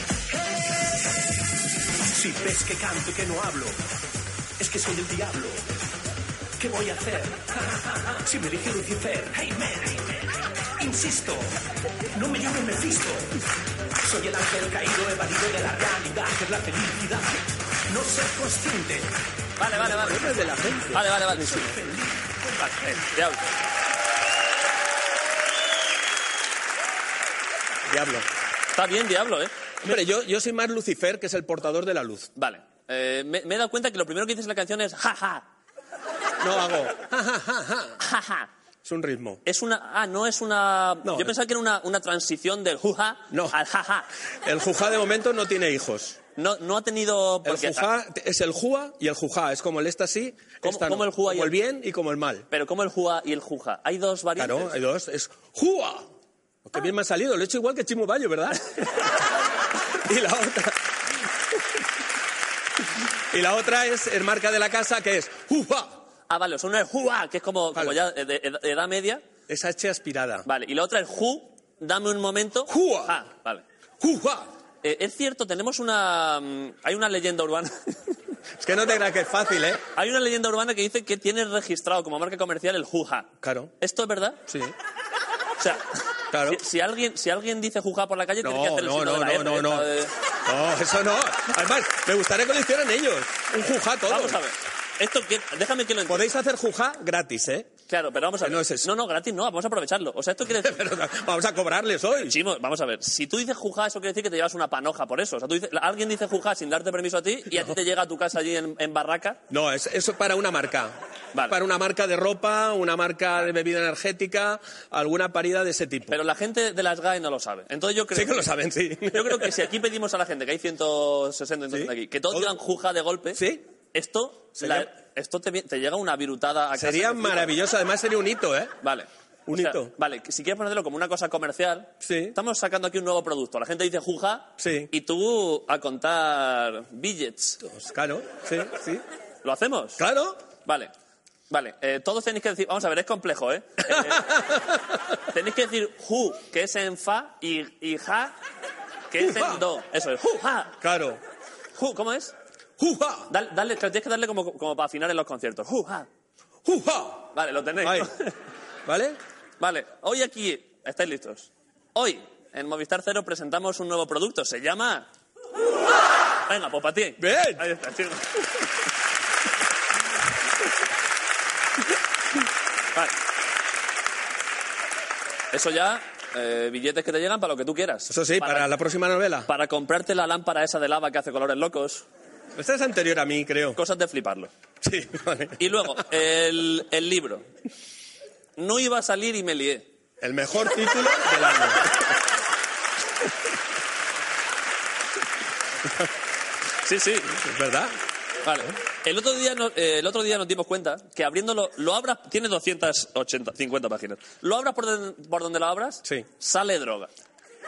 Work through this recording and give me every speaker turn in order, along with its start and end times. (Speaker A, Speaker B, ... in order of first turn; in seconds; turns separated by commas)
Speaker A: 2.1-3.8, Speaker A: 4.6-5.6, Speaker A: 6.6-10.3, Speaker A: 10.8-11.5, Speaker A: 12.2-13.3, Speaker A: 14.0-19.1, Speaker B: 19.6-20.4, Speaker C: 19.8-21.7, Speaker B: 20.9-21.7, Speaker A: 21.4-23.2, Speaker B: 22.7-23.5, Speaker C: 27.9-28.3, Speaker B: 28.8-29.9, Speaker C: 29.8-32.3, Speaker B: 32.4-35.5, Speaker C: 36.4-38.0, Speaker B: 38.0-38.5, Speaker C: 38.9-39.4, Speaker B: 39.5-44.1, Speaker C: 41.0-41.3, Speaker C: 43.3-43.6, Speaker C: 44.5-46.2, Speaker B: 46.4-47.9, Speaker C: 47.4-52.5, Speaker B: 50.6-51.6, Speaker B: 52.5-54.7, Speaker C: 54.4-56.1, Speaker C: 56.7-58.8, Speaker C: 60.1-60.8, Speaker C: 63.3-66.0, Speaker B: 66.3-69.2, Speaker C: 69.5-70.5, Speaker B: 70.5-73.6, Speaker C: 72.7-73.2, Speaker C: 74.0-74.5, Speaker B: 74.8-78.2, Speaker C: 78.6-79.8, Speaker B: 80.0-84.4, Speaker C: 83.4-83.7, Speaker C: 84.5-84.7, Speaker B: 85.6-90.1, Speaker C: 86.3-86.6, Speaker C: 88.4-89.9, Speaker C: 90.5-94.4, Speaker B: 94.1-96.3, Speaker C: 96.1-97.7, Speaker B: 97.9-101.1, Speaker C: 98.4-98.9, Speaker C: 100.6-102.4, Speaker B: 102.2-109.4, Speaker C: 109.5-111.0, Speaker C: 111.5-116.2, Speaker B: 116.1-118.5, Speaker C: 118.1-119.7, Speaker B: 119.1-123.4, Speaker C: 121.7-122.5, Speaker C: 123.3-123.6, Speaker B: 123.9-127.5, Speaker C: 124.6-124.9, Speaker C: 126.8-128.7, Speaker B: 128.8-137.6, Speaker C: 129.5-129.9, Speaker C: 132.0-132.4, Speaker C: 134.6-134.9, Speaker C: 137.6-139.0, Speaker B: 139.4-140.0, Speaker C: 140.0-140.4, Speaker B: 140.6-140.9, Speaker B: 141.5-144.2, Speaker C: 143.8-144.8, Speaker B: 145.3-148.3, Speaker B: 149.1-150.8, Speaker C: 149.2-149.7, Speaker C: 150.8-151.2, Speaker B: 151.8-152.3, Speaker C: 152.8-153.3, Speaker B: 153.3-156.1, Speaker C: 156.7-157.3, Speaker B: 157.3-158.3, Speaker C: 157.8-158.1, Speaker C: 158.9-159.2, Speaker B: 159.6-165.1, Speaker B: 166.5-168.5, Speaker C: 167.2-167.7, Speaker B: 175.5-178.7, Speaker C: 178.1-179.5, Speaker B: 179.5-182.1, Speaker C: 182.6-183.8, Speaker B: 183.8-184.5, Speaker C: 184.8-185.6, Speaker B: 185.6-187.5, Speaker B: 188.6-189.9, Speaker C: 190.2-191.8, Speaker B: 196.9-197.4, Speaker C: 197.4-197.9, Speaker B: 198.4-207.1